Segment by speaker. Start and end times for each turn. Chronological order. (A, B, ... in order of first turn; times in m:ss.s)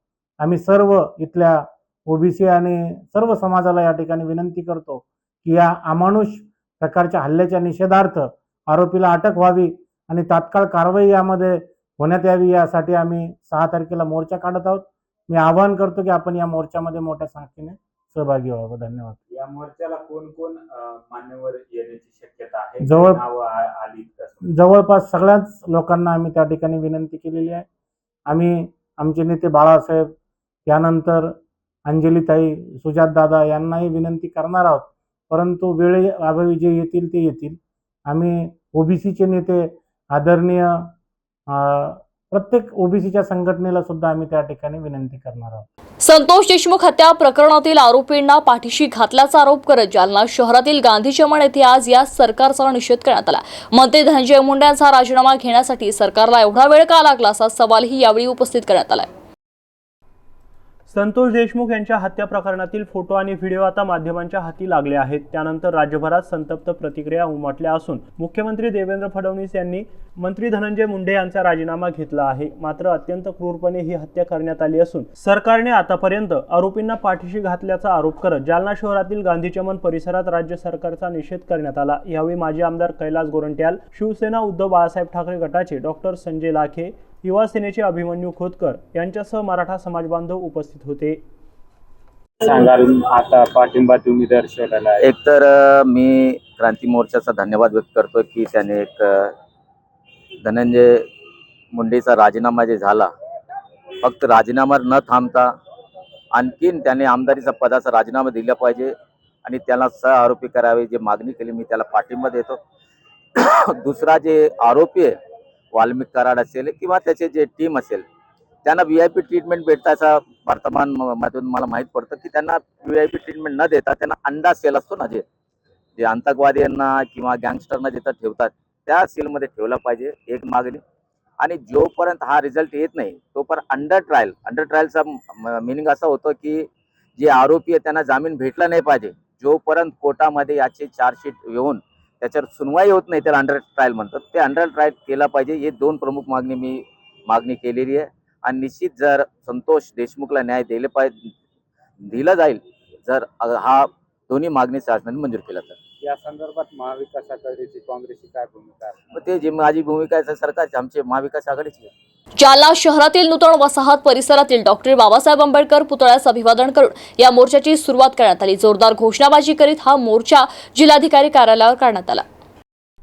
0:00.4-0:19.2 A
0:19.3-0:24.7 B
0:22.8-0:23.2 A
0:24.4-0:27.6 A
0:28.3-0:30.1 A
0:30.7-0:37.6 A
0:38.1-0:40.9 A
0:41.5-0:45.7 A
0:46.0-0:59.1 C
1:00.9-1:31.2 D
1:32.4-1:35.1 B
1:35.0-1:39.3 E
1:40.4-1:41.0 E
1:41.7-1:43.1 E
1:44.0-1:45.5 E
1:46.3-1:48.9 E
1:49.4-1:52.6 E
1:53.4-1:55.2 E
1:55.7-1:58.0 E
1:58.6-2:05.2 E
2:06.0-2:10.8 E
2:11.4-2:31.3 E
2:32.0-2:35.7 E
2:36.0-2:39.0 B
2:39.1-2:41.9 E
2:42.4-2:52.2 C